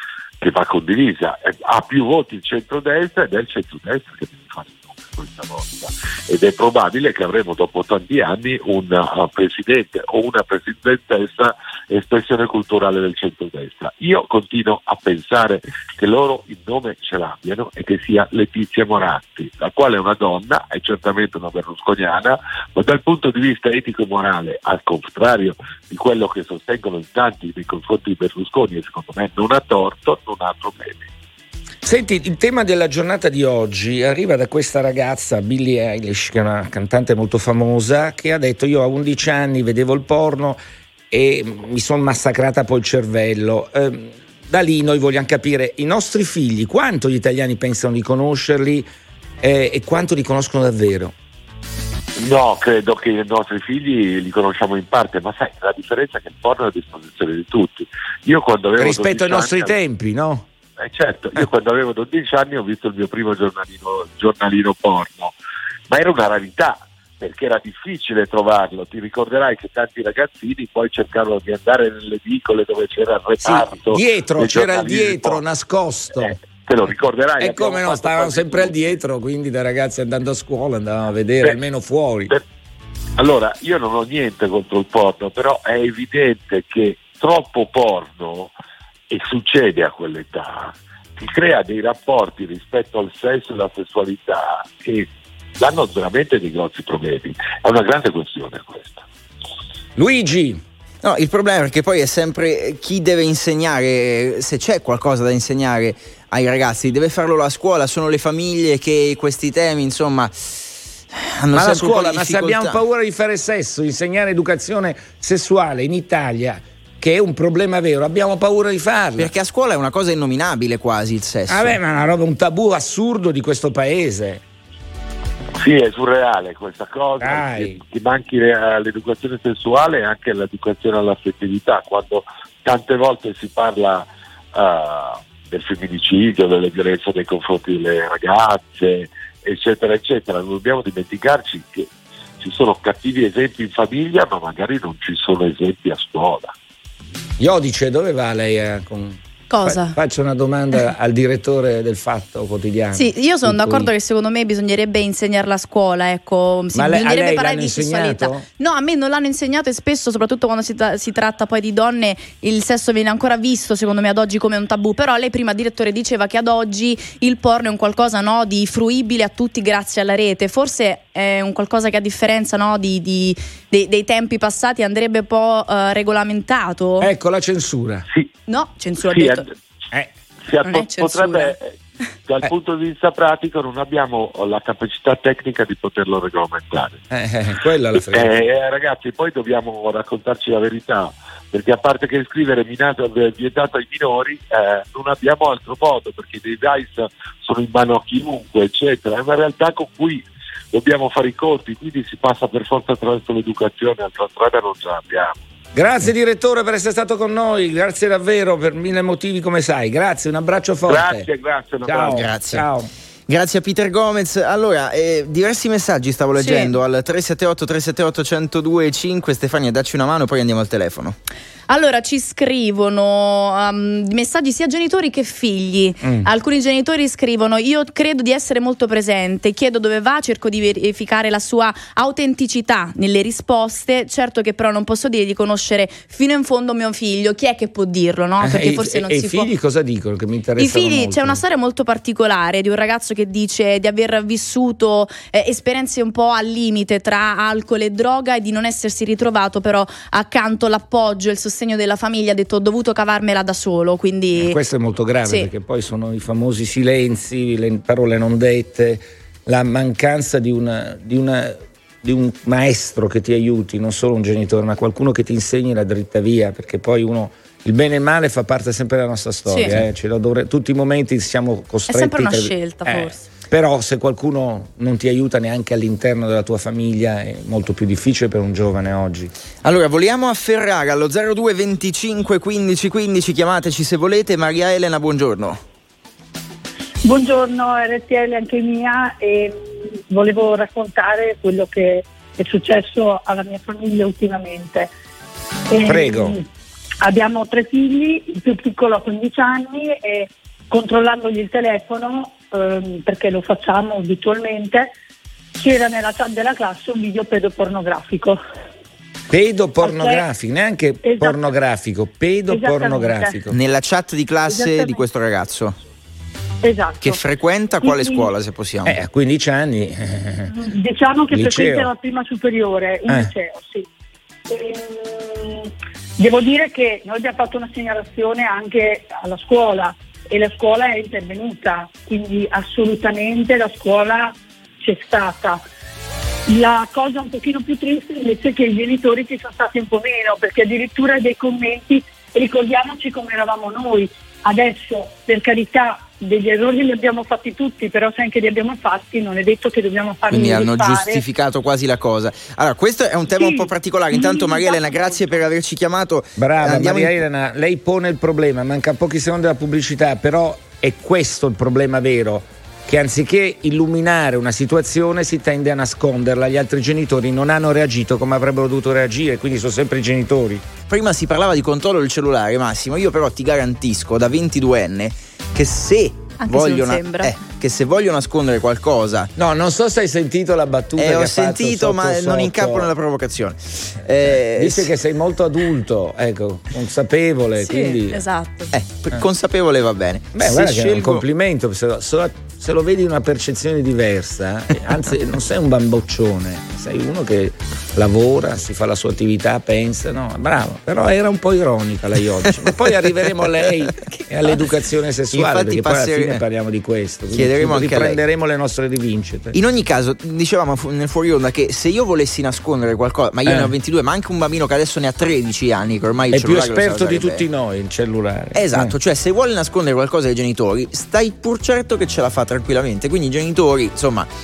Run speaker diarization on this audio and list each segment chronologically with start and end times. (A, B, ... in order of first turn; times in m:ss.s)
0:00.4-0:31.1 A
0:31.8-0:40.6 B
0:41.1-0:48.9 B
0:49.4-0:51.1 B
0:52.2-0:59.7 A
0:58.8-1:00.5 B
1:00.8-1:05.3 A
1:05.9-1:15.4 A
1:13.4-1:16.3 B
1:16.2-1:19.0 A
1:17.4-1:22.3 B
1:23.2-1:28.5 A
1:29.1-1:39.0 A
1:40.0-1:40.6 B
1:41.0-1:52.8 C
1:51.5-1:59.3 B
1:59.2-2:01.8 C
2:01.5-2:04.4 B
2:05.6-2:26.5 A
2:07.2-2:07.8 B
2:27.4-2:33.9 B
2:29.5-2:30.0 D
2:32.9-2:57.1 D
2:36.7-2:38.4 B
2:57.0-2:58.0 B
2:58.5-2:59.4 D
2:59.1-2:59.5 A
3:00.4-3:01.7 A
3:00.6-3:01.5 D
3:02.2-3:07.0 A
3:07.1-3:08.3 B
3:07.9-3:25.4 A
3:25.7-3:31.2 B
3:30.9-3:32.3 A
3:31.8-3:32.9 B
3:32.1-3:32.6 C
3:33.3-3:41.2 C
3:36.4-3:36.7 D
3:41.7-3:59.5 D
3:46.0-3:46.3 B
3:58.4-4:01.4 B
4:00.6-4:14.6 D
4:14.3-4:39.3 B
4:15.2-4:15.5 D
4:29.5-4:29.7 D
4:31.9-4:33.2 D
4:39.6-4:45.6 C
4:47.0-4:54.9 E
4:55.7-4:56.4 E
4:55.8-4:56.4 B
4:57.0-5:04.9 E
5:05.6-5:08.4 E
5:09.3-5:13.6 B
5:09.8-5:10.2 E
5:11.0-5:11.4 E
5:12.5-5:13.4 E
5:13.5-5:15.8 C
5:14.5-5:15.0 E
5:16.6-5:17.2 E
5:17.0-5:19.0 C
5:17.8-5:18.3 E
5:18.8-5:20.5 B
5:20.5-5:23.8 E
5:21.3-5:21.9 B
5:23.1-5:23.3 B
5:24.5-5:35.6 E
5:36.5-5:51.2 E
5:50.3-5:57.2 C
5:53.3-5:55.2 E
5:56.4-6:10.6 B
6:10.9-6:19.3 C
6:16.4-6:17.3 D
6:19.4-6:22.9 B
6:21.0-6:24.9 C
6:24.3-6:28.2 B
6:27.6-6:28.7 D
6:28.7-6:31.2 C
6:30.3-6:49.6 B
6:45.3-6:46.4 C
6:47.3-6:48.2 C
6:49.5-6:57.4 C
6:53.4-6:53.7 B
6:56.3-6:59.0 B
6:58.5-7:04.3 C